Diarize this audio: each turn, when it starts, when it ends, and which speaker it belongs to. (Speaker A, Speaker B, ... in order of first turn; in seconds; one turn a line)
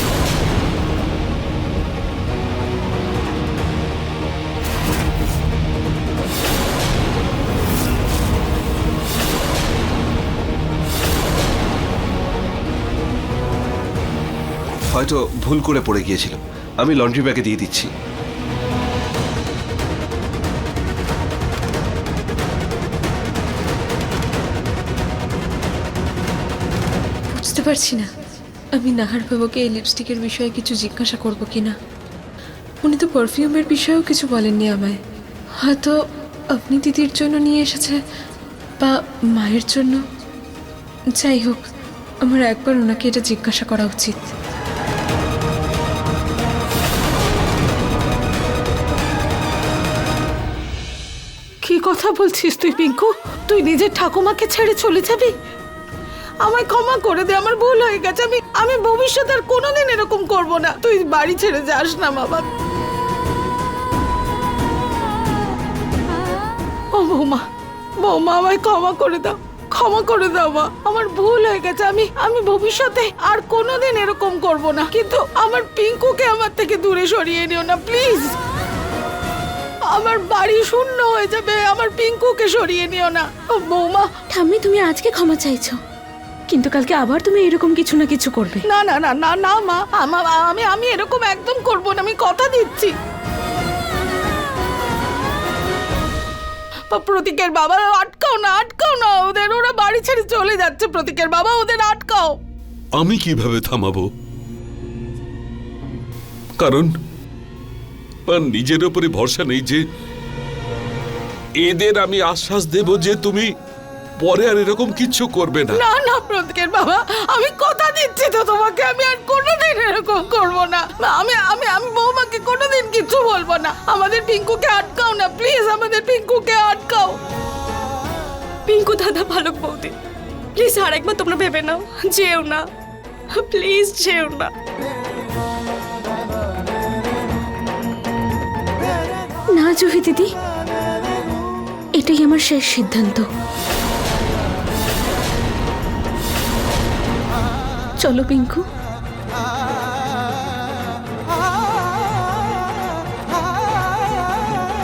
Speaker A: 14.9-17.9
Speaker B: 27.3-28.1
Speaker B: 28.7-31.7
Speaker B: 32.8-35.0
Speaker B: 35.6-36.0
Speaker B: 36.5-38.0
Speaker B: 38.8-40.0
Speaker B: 41.2-41.6
Speaker B: 42.2-44.3
Speaker C: 51.6-55.3
Speaker C: 56.4-62.5
Speaker C: 66.9-67.4
Speaker C: 68.0-78.3
Speaker C: 79.9-84.1
Speaker D: 84.3-85.8
Speaker D: 86.5-88.6
Speaker C: 88.7-92.9
Speaker C: 96.9-102.3
Speaker E: 103.0-104.1
Speaker E: 106.6-106.9
Speaker E: 108.3-109.8
Speaker E: 111.6-113.5
Speaker E: 114.2-115.8
Speaker C: 115.7-127.2
Speaker F: 128.7-129.9
Speaker F: 130.6-132.6
Speaker F: 133.3-134.5
Speaker D: 139.5-140.3
Speaker D: 142.0-143.3
Speaker D: 148.0-148.6